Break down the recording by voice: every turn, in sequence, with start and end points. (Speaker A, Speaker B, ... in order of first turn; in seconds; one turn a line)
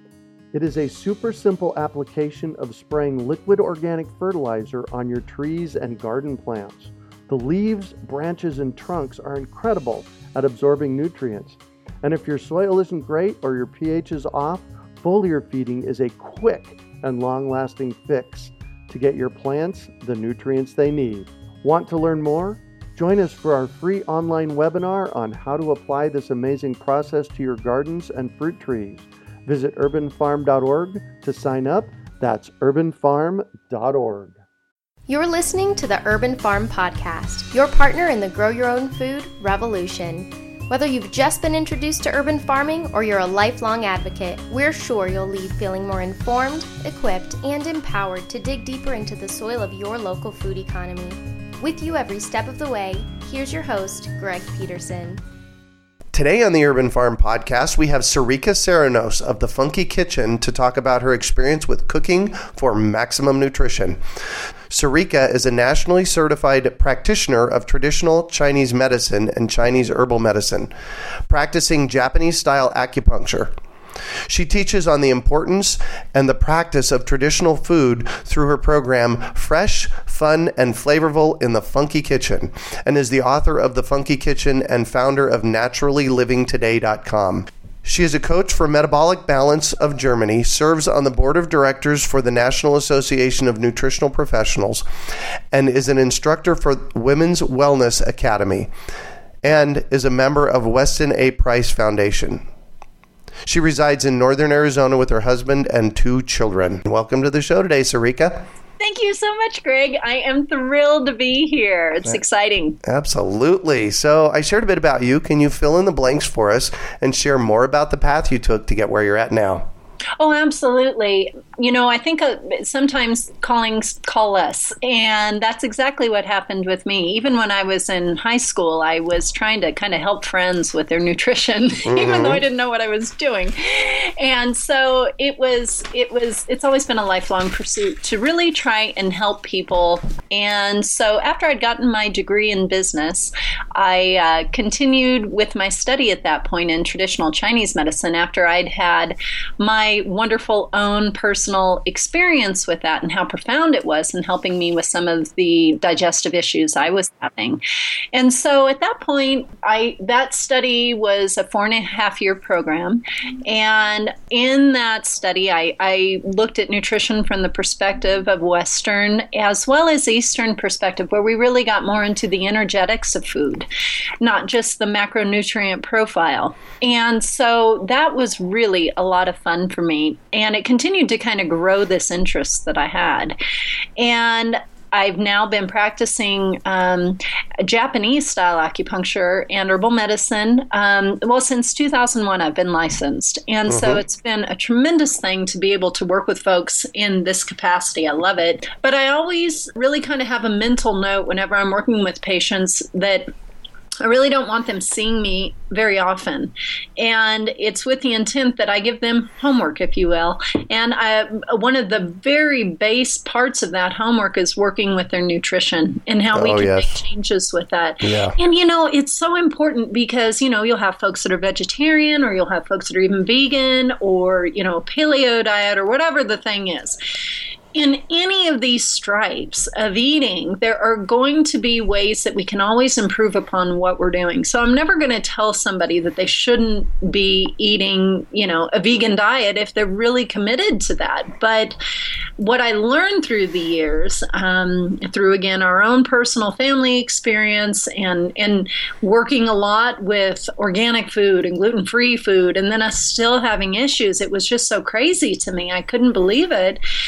Speaker A: 0.5-34.4
Speaker B: 35.1-55.2
Speaker C: 56.1-64.0
Speaker C: 64.7-70.7
Speaker C: 71.3-73.5
Speaker C: 74.3-94.8
Speaker C: 95.5-98.7
Speaker C: 99.4-102.5
Speaker C: 103.5-108.5
Speaker D: 108.8-112.8
Speaker C: 112.8-119.7
Speaker D: 120.2-157.6
Speaker C: 131.9-132.4
Speaker D: 158.1-173.7
Speaker D: 174.2-183.4
Speaker D: 184.0-203.3
Speaker C: 193.7-194.0
Speaker D: 204.0-227.0
Speaker C: 216.3-217.0
Speaker C: 218.0-218.4
Speaker D: 227.7-241.8
Speaker D: 242.4-256.8